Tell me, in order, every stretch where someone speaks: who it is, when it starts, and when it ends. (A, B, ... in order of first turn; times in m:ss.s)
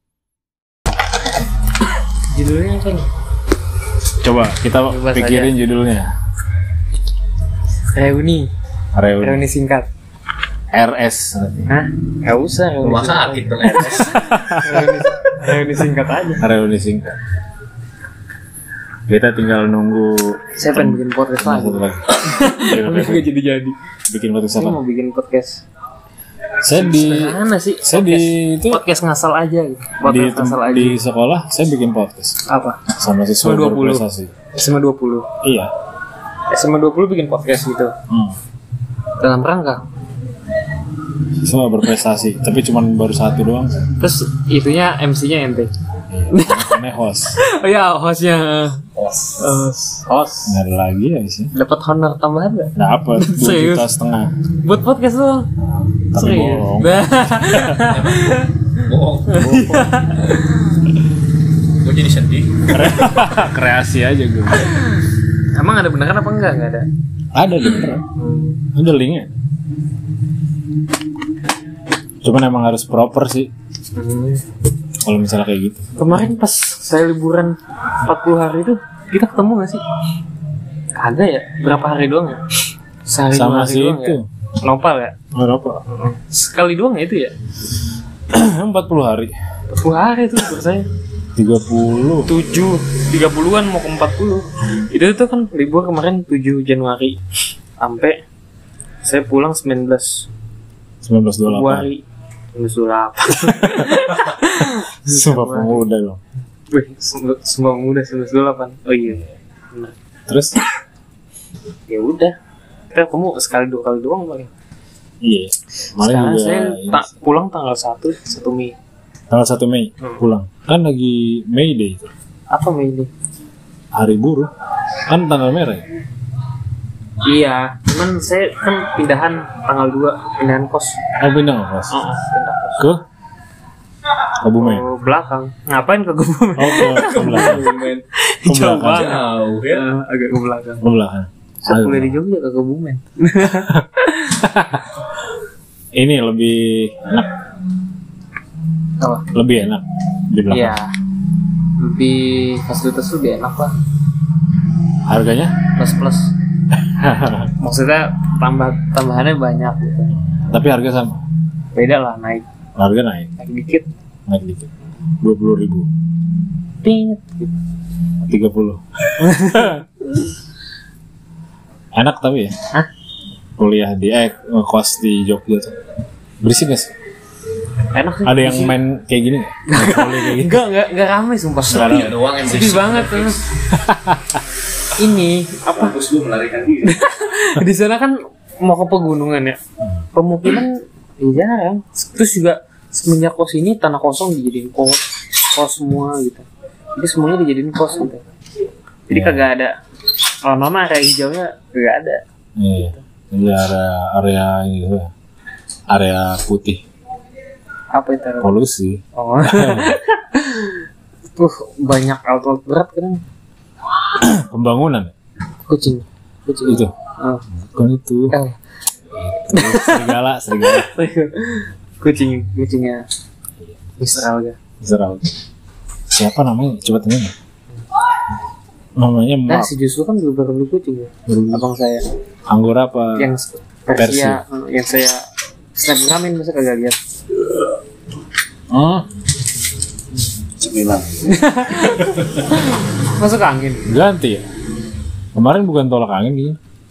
0:02.3-0:03.1 A
0:04.2-0:06.1 B
0:04.9-0:05.5 A
0:07.9-0:08.5 A
0:08.9-0:09.4 B
0:09.2-0:09.9 A
0:10.7-0:11.7 B
0:11.7-0:16.4 A
0:12.8-0:14.2 C
0:13.9-0:15.6 B
0:16.4-0:17.2 B
0:19.1-0:23.3 B
0:20.6-0:23.7 A
0:24.1-0:24.8 B
0:24.6-0:25.6 A
0:26.6-0:28.8 B
0:26.7-0:31.0 A
0:30.0-0:34.4 B
0:32.5-0:32.8 A
0:33.4-0:35.3 A
0:35.4-0:35.7 B
0:36.5-0:37.9 A
0:38.1-0:38.4 B
0:39.2-0:39.8 A
0:41.4-0:43.9 B
0:44.0-0:45.7 A
0:46.1-0:47.4 B
0:46.3-0:46.8 A
0:47.3-0:48.8 A
0:49.0-0:49.6 C
0:49.4-0:50.6 A
0:50.4-0:51.5 B
0:51.5-0:53.9 A
0:52.8-0:54.3 B
0:54.6-0:55.5 A
0:55.6-0:57.9 B
0:56.1-0:58.7 A
0:57.9-0:58.2 C
0:58.8-0:59.3 C
0:59.2-1:00.9 A
0:59.3-1:00.0 B
1:01.8-1:02.9 C
1:02.7-1:04.8 B
1:05.4-1:06.9 A
1:07.3-1:08.0 B
1:08.2-1:08.6 A
1:08.7-1:09.3 B
1:12.2-1:13.5 B
1:13.9-1:14.4 A
1:15.0-1:15.9 B
1:16.0-1:19.8 A
1:21.0-1:22.4 A
1:23.0-1:25.1 A
1:23.3-1:24.2 B
1:25.3-1:25.8 B
1:25.9-1:27.3 A
1:28.3-1:29.3 B
1:29.7-1:30.9 A
1:31.3-1:32.3 B
1:32.2-1:37.2 A
1:37.8-1:38.2 A
1:39.0-1:40.3 A
1:41.0-1:41.9 B
1:41.4-1:42.0 A
1:42.5-1:45.8 A
1:45.0-1:46.2 B
1:46.7-1:49.9 A
1:50.3-1:50.6 B
1:51.9-1:52.3 A
1:52.9-1:54.5 A
1:55.2-1:57.1 B
1:56.0-1:58.7 A
1:59.3-2:02.1 B
2:02.5-2:03.1 A
2:03.9-2:04.5 B
2:05.1-2:05.8 B
2:07.2-2:11.0 A
2:11.2-2:12.0 B
2:11.9-2:12.9 A
2:14.4-2:14.8 B
2:14.6-2:20.8 A
2:16.6-2:17.7 B
2:17.1-2:18.0 C
2:18.4-2:19.2 B
2:18.8-2:19.8 C
2:20.8-2:22.2 B
2:21.7-2:24.5 A
2:24.3-2:24.8 B
2:25.9-2:27.3 B
2:29.0-2:29.2 A
2:29.3-2:30.8 B
2:30.5-2:30.9 A
2:31.8-2:33.7 A
2:35.0-2:35.6 B
2:35.7-2:36.3 A
2:36.8-2:37.5 B
2:37.6-2:40.1 A
2:40.1-2:41.2 B
2:41.7-2:42.4 A
2:42.8-2:43.3 B
2:43.4-2:43.9 A
2:44.3-2:45.9 B
2:46.8-2:47.5 A
2:48.3-2:49.7 B
2:49.2-2:50.2 A
2:51.9-2:52.6 B
2:53.6-2:55.7 B
2:56.4-2:56.9 B
2:57.9-2:58.8 A
2:58.2-3:00.6 B
2:59.7-3:03.4 A
3:01.7-3:03.4 C
3:01.7-3:02.2 B
3:03.7-3:04.4 B
3:05.0-3:06.0 A
3:05.7-3:07.0 C
3:06.8-3:09.6 A
3:10.1-3:16.4 A
3:17.0-3:18.2 A
3:19.1-3:19.7 A
3:19.1-3:19.5 B
3:20.4-3:22.2 A
3:22.6-3:25.1 B
3:25.9-3:26.8 B
3:27.9-3:28.5 A
3:28.4-3:30.0 B
3:29.1-3:33.2 A
3:34.2-3:35.1 B
3:35.7-3:37.4 A
3:36.6-3:36.9 B
3:37.6-3:38.4 B
3:38.3-3:38.6 A
3:39.1-3:40.9 B
3:39.5-3:43.0 A
3:44.0-3:44.6 A
3:44.8-3:45.3 B
3:46.1-3:47.3 B
3:49.0-3:49.7 B
3:49.5-3:52.0 A
3:51.3-3:51.6 B
3:52.5-3:53.3 B
3:53.2-3:57.0 A
3:53.9-3:54.4 B
3:58.7-3:59.0 B
4:00.6-4:01.4 C
4:01.3-4:03.9 A
4:03.8-4:04.5 B
4:05.3-4:06.6 B